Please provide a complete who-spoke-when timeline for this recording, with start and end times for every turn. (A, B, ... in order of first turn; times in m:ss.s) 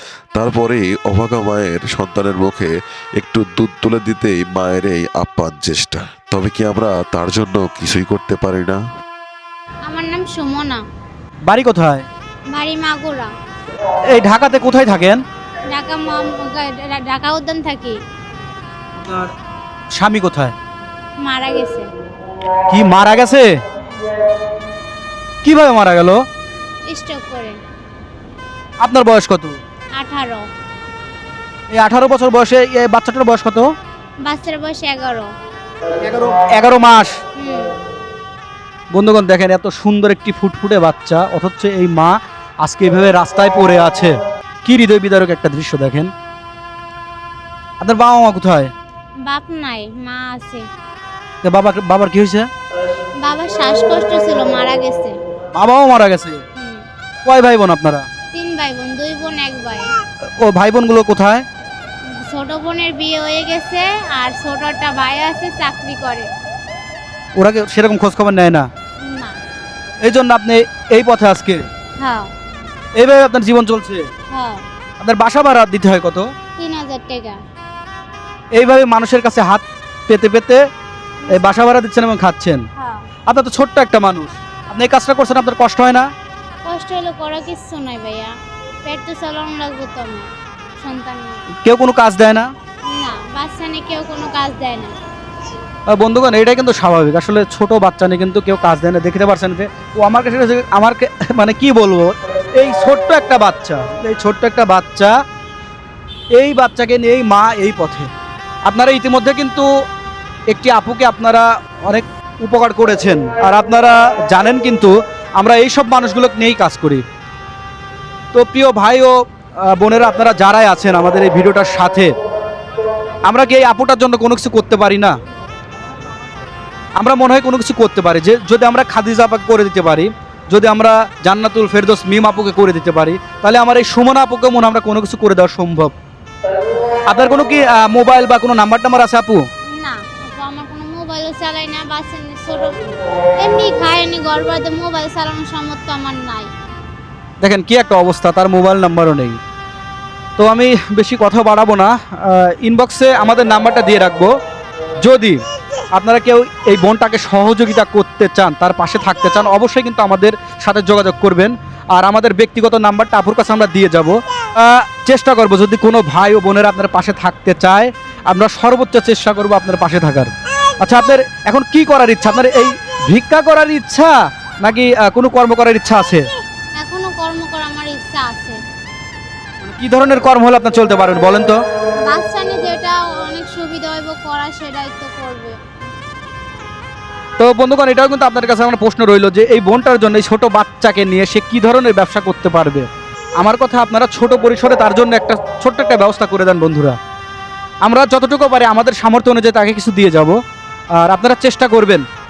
0:00.3-0:08.8 A
0:09.8-0:10.8 B
0:11.5-0:12.0 C
0:12.5-0:13.3 B
0:14.1-0:15.2 C
0:15.7-0:18.0 B
0:19.0-0:19.3 C
0:20.0-0:20.5 C
0:21.2-0:21.8 B
0:22.7-0:23.5 C
0:25.4-0:26.2 C
0:26.9-0:27.6 B
0:28.8-0:29.6 C
0:30.0-0:30.4 B
0:31.7-0:33.7 C
0:34.2-0:35.3 B
0:36.0-0:37.1 C
0:37.4-0:37.7 B
0:38.9-0:44.1 C
0:44.6-0:46.1 C
0:47.8-0:48.7 C
0:49.2-0:50.6 B
0:51.4-0:52.4 C
0:53.2-0:55.1 B
0:55.5-0:56.4 C
0:57.2-0:58.0 C
0:58.3-0:59.9 B
1:00.4-1:01.4 C
1:02.3-1:06.3 B
1:07.4-1:08.7 C
1:09.0-1:09.4 B
1:10.0-1:11.6 C
1:12.0-1:12.3 B
1:13.0-1:14.0 C
1:14.3-1:14.6 B
1:15.0-1:16.3 C
1:16.6-1:17.4 B
1:18.5-1:20.6 C
1:21.2-1:21.7 B
1:21.3-1:22.6 C
1:23.3-1:26.0 C
1:26.6-1:28.3 B
1:28.8-1:31.4 B
1:31.6-1:32.5 C
1:32.8-1:34.9 B
1:35.9-1:45.1 C
1:46.3-1:48.1 C
1:48.6-1:49.7 C
1:50.5-1:57.0 C
1:58.3-1:59.1 C
1:59.7-2:02.1 C
2:03.2-2:05.1 C
2:07.0-2:15.9 C
2:17.1-2:19.4 C
2:19.7-2:22.8 B
2:23.4-2:26.5 B
2:27.4-2:29.4 C
2:30.4-2:34.3 C
2:35.0-2:35.4 C
2:35.9-2:56.2 C
2:56.8-2:58.6 B
2:59.6-3:01.6 C
3:02.0-3:05.6 B
3:07.4-3:12.8 C
3:13.4-3:17.0 C
3:17.8-3:20.4 C
3:21.0-3:22.0 C